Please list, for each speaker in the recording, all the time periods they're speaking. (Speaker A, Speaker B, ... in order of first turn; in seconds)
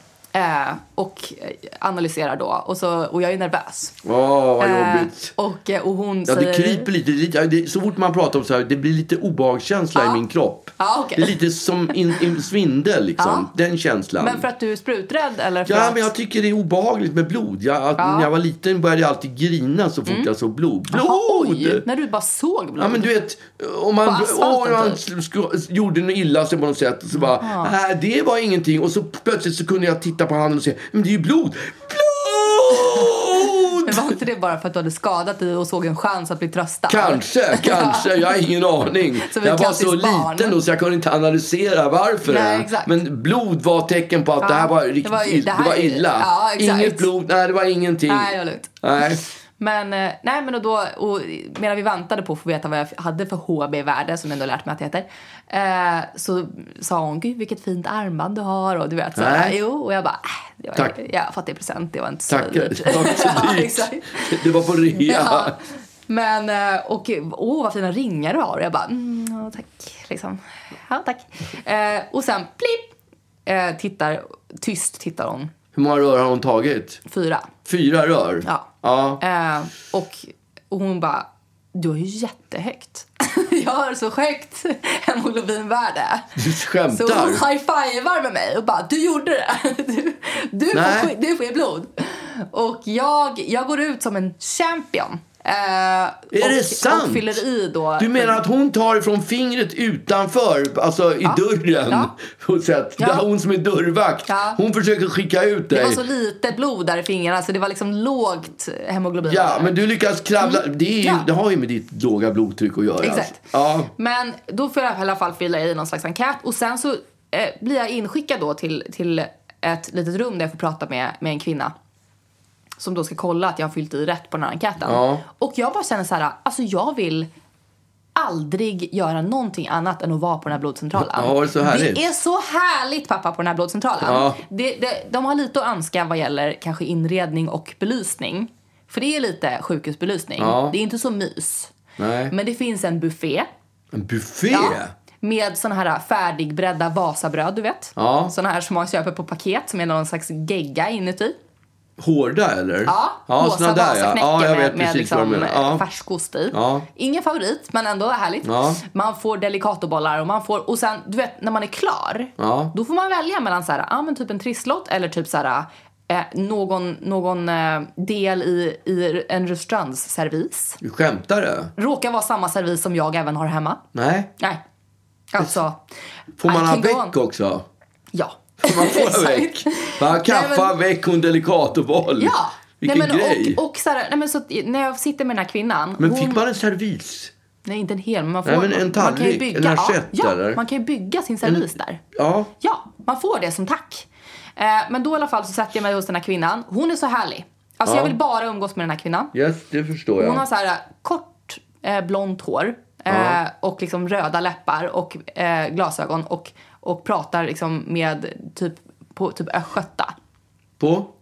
Speaker A: 0.3-4.0, 4.6-6.9, 9.9-10.2, 10.8-11.4, 13.2-13.5, 14.2-16.1, 18.0-18.3, 20.1-20.3, 20.9-23.1, 24.0-25.0, 27.1-27.7, 32.7-38.4, 39.2-40.6, 42.3-42.9, 44.4-47.1, 48.1-64.4, 65.0-65.6, 66.1-72.9, 73.5-75.5, 77.1-77.5, 78.4-86.3, 86.9-98.4, 101.2-102.1, 103.0-103.2, 104.3-104.6, 105.7-109.7, 110.4-111.2, 113.0-113.4, 114.0-121.7, 122.8-127.3, 128.2-141.7, 142.3-143.5, 144.5-151.3, 152.8-170.8, 171.8-173.8, 175.3-175.8, 176.4-177.1, 178.1-180.7, 182.2-186.4, 187.6-192.0, 192.6-199.3, 200.2-210.1
Speaker B: 4.0-5.3, 6.3-14.4, 15.7-21.8, 22.8-34.0, 36.9-49.2, 59.2-59.5, 62.3-65.5, 75.7-77.0, 77.6-79.2, 86.3-87.4, 90.7-91.1, 96.3-97.4, 98.0-106.0, 109.2-113.9, 124.8-125.2, 130.9-132.0, 134.0-134.4, 140.4-140.7, 142.0-142.3, 143.9-144.9, 148.0-148.3, 152.0-155.8, 156.5-156.9, 158.4-158.8, 162.4-162.7, 170.8-171.7, 173.9-174.3, 176.4-177.7, 178.6-183.6, 186.0-187.3, 188.4-190.6, 191.4-192.5, 197.8-198.1, 199.3-200.4, 203.1-203.4, 210.8-211.1